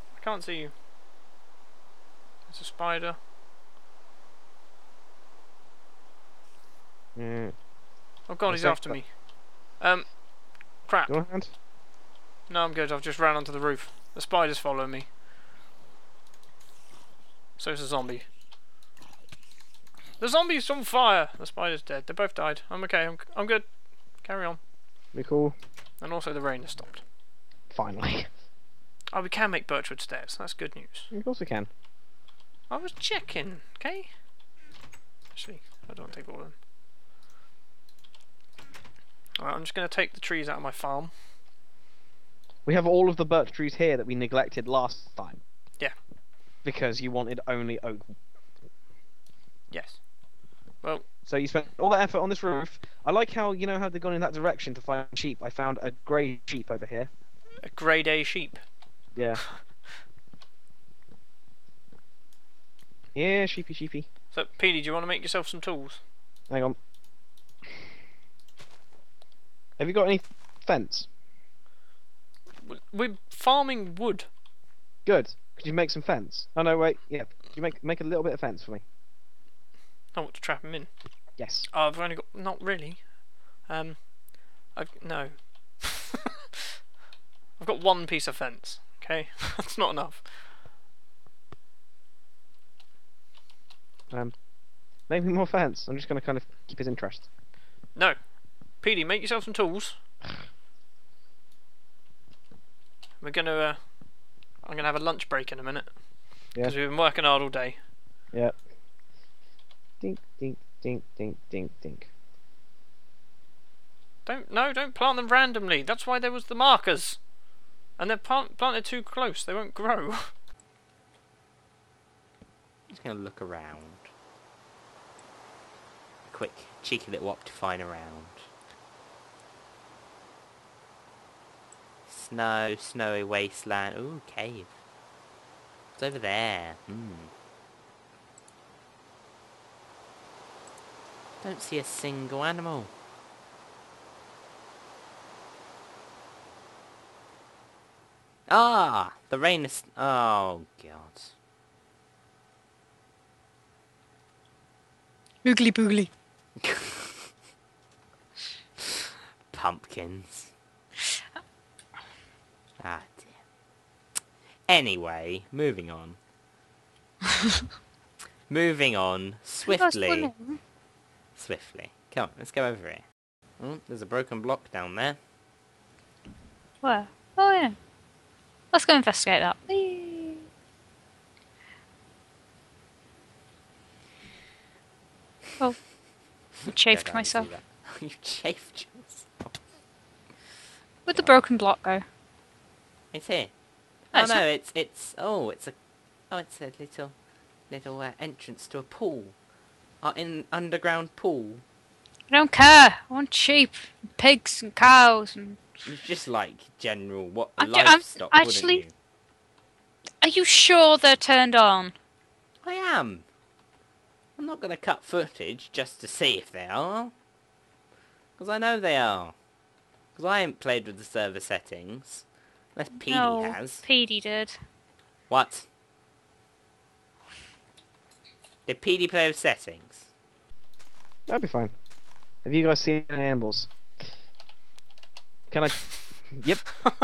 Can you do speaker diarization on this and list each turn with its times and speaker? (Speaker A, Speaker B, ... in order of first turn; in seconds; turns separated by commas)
Speaker A: 0.1-0.7, Speaker A: 2.5-3.2, Speaker B: 7.2-7.6, Speaker A: 8.3-9.2, Speaker B: 8.5-9.0, Speaker A: 9.8-10.2, Speaker A: 10.8-11.1, Speaker B: 11.1-11.5, Speaker A: 12.5-15.1, Speaker A: 17.6-18.3, Speaker A: 20.2-23.7, Speaker A: 24.2-24.6, Speaker B: 25.1-25.6, Speaker A: 26.0-27.0, Speaker B: 27.7-28.3, Speaker A: 29.1-31.1, Speaker B: 31.1-31.7, Speaker A: 32.7-34.1, Speaker A: 35.3-36.5, Speaker A: 39.4-41.1, Speaker B: 42.7-45.4, Speaker B: 46.6-48.1, Speaker A: 49.7-50.0, Speaker B: 51.3-57.1, Speaker A: 57.6-58.6, Speaker B: 59.1-59.4, Speaker B: 63.1-64.1, Speaker A: 64.3-66.0, Speaker B: 66.5-66.8, Speaker B: 69.8-71.1, Speaker A: 72.6-74.3, Speaker B: 75.1-78.8, Speaker A: 80.1-80.9, Speaker B: 81.4-81.7, Speaker A: 81.7-83.1, Speaker A: 83.6-86.0, Speaker A: 87.6-90.5, Speaker B: 95.1-97.3, Speaker A: 98.8-100.0, Speaker A: 103.2-103.8, Speaker A: 104.6-105.9, Speaker A: 106.5-107.8, Speaker B: 110.0-112.1, Speaker A: 114.2-117.2, Speaker A: 118.0-120.3, Speaker C: 122.9-124.1, Speaker C: 126.3-128.5, Speaker C: 132.1-134.7, Speaker C: 136.0-137.3, Speaker C: 141.4-142.9, Speaker C: 148.5-151.3, Speaker D: 155.4-156.1, Speaker C: 156.6-157.2, Speaker C: 159.5-160.5, Speaker C: 162.8-163.3, Speaker C: 164.7-166.2, Speaker C: 168.5-170.3, Speaker D: 169.7-170.6, Speaker C: 171.4-173.0, Speaker C: 173.6-175.2, Speaker D: 176.8-177.8, Speaker D: 178.7-180.4, Speaker D: 186.7-187.5, Speaker C: 186.7-189.6, Speaker D: 191.1-192.0, Speaker C: 193.1-193.5, Speaker C: 194.1-195.8, Speaker D: 194.1-194.4, Speaker C: 196.3-197.2, Speaker C: 197.7-199.4, Speaker C: 200.0-201.6, Speaker D: 202.3-205.6, Speaker C: 205.8-208.9, Speaker D: 207.6-208.8, Speaker D: 210.2-211.9, Speaker C: 212.6-213.3, Speaker C: 214.4-217.1, Speaker C: 218.4-219.3, Speaker C: 220.2-223.9, Speaker D: 223.0-224.6, Speaker C: 225.3-225.7, Speaker C: 228.7-230.1, Speaker B: 231.3-231.7, Speaker B: 232.4-233.7, Speaker B: 235.5-236.7